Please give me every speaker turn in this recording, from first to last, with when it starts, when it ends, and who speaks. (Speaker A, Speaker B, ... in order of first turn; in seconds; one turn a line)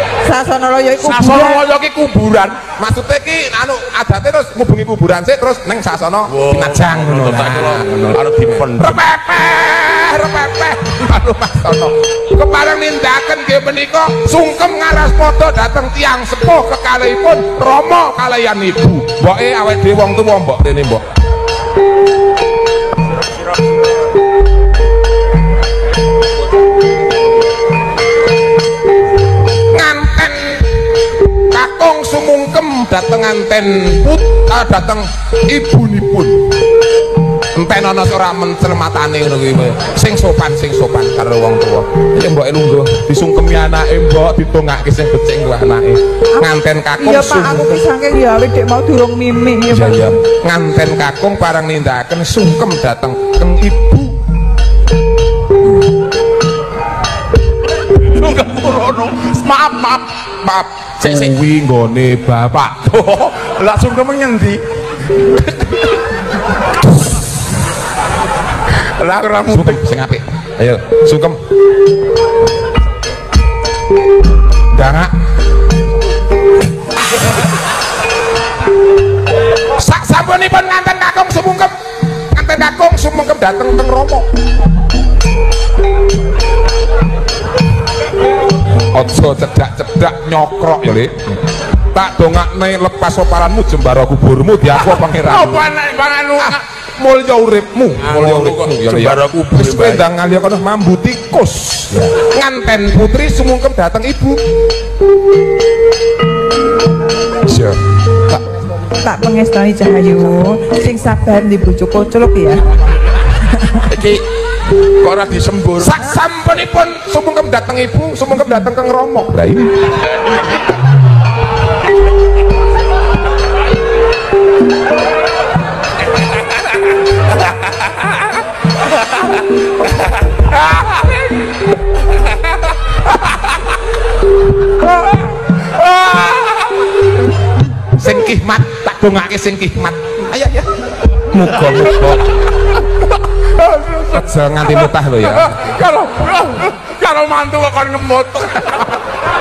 Speaker A: 0.2-1.6
Speaker B: 1.0-2.6
Speaker C: 2.8-21.1
Speaker B: 6.3-9.1
Speaker C: 29.7-30.8
Speaker C: 31.5-36.4
Speaker C: 37.5-47.8
Speaker A: 46.4-50.1
Speaker C: 49.7-54.2
Speaker B: 57.9-60.1
Speaker C: 60.4-62.9
Speaker B: 61.0-61.3
Speaker B: 62.8-64.6
Speaker B: 65.2-65.8
Speaker B: 68.7-69.9
Speaker C: 69.5-71.4
Speaker C: 74.7-75.1
Speaker C: 79.7-84.3
Speaker C: 88.8-91.3
Speaker C: 91.9-95.7
Speaker B: 94.8-96.6
Speaker C: 96.4-104.4
Speaker B: 98.0-100.1
Speaker B: 107.5-107.8
Speaker A: 109.0-112.6
Speaker A: 113.6-113.8
Speaker B: 113.8-114.2
Speaker B: 115.0-116.0
Speaker C: 115.8-119.7
Speaker B: 135.5-136.9
Speaker C: 137.9-142.3
Speaker B: 143.4-149.0
Speaker C: 144.1-145.8